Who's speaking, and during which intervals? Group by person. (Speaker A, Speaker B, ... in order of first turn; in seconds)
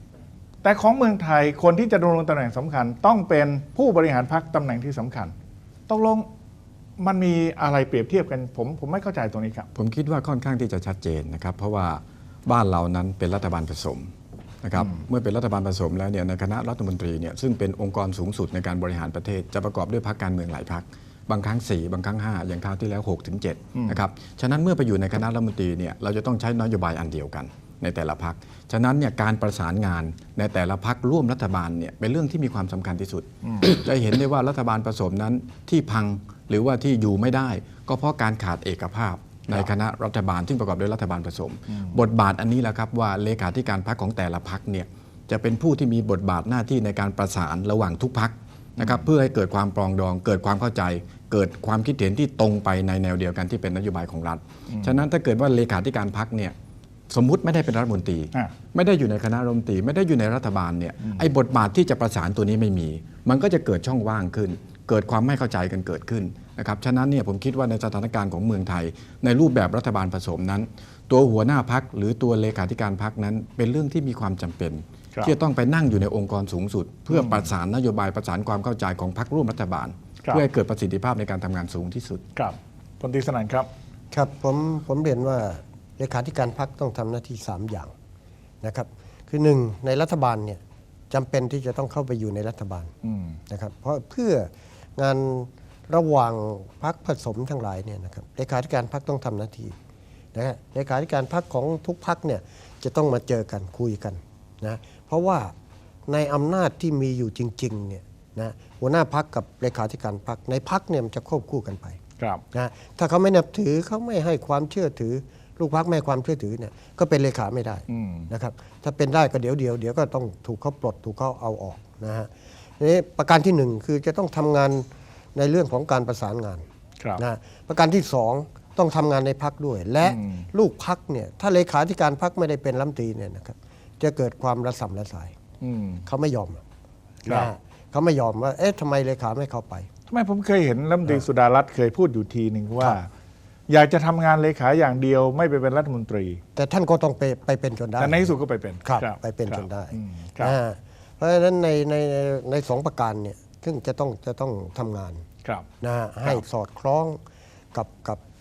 Speaker A: 0.6-5.3, 5.9-6.2, 7.0-9.7, 23.7-24.0, 33.4-33.7, 41.7-42.0, 48.8-49.0, 77.1-77.5, 82.3-83.7, 93.0-93.4, 117.9-118.3, 130.1-130.4, 135.6-136.0, 140.1-143.1, 143.7-146.4, 148.0-150.5
Speaker B: 9.7-14.1, 14.6-56.5, 57.1-82.2
Speaker C: 84.1-87.9, 88.6-92.9, 93.5-99.8, 100.3-105.5, 106.1-112.0, 112.5-126.6, 127.2-135.3, 136.1-136.6, 137.2-139.9, 146.5-148.3, 148.8-155.2, 155.8-157.2, 157.7-158.2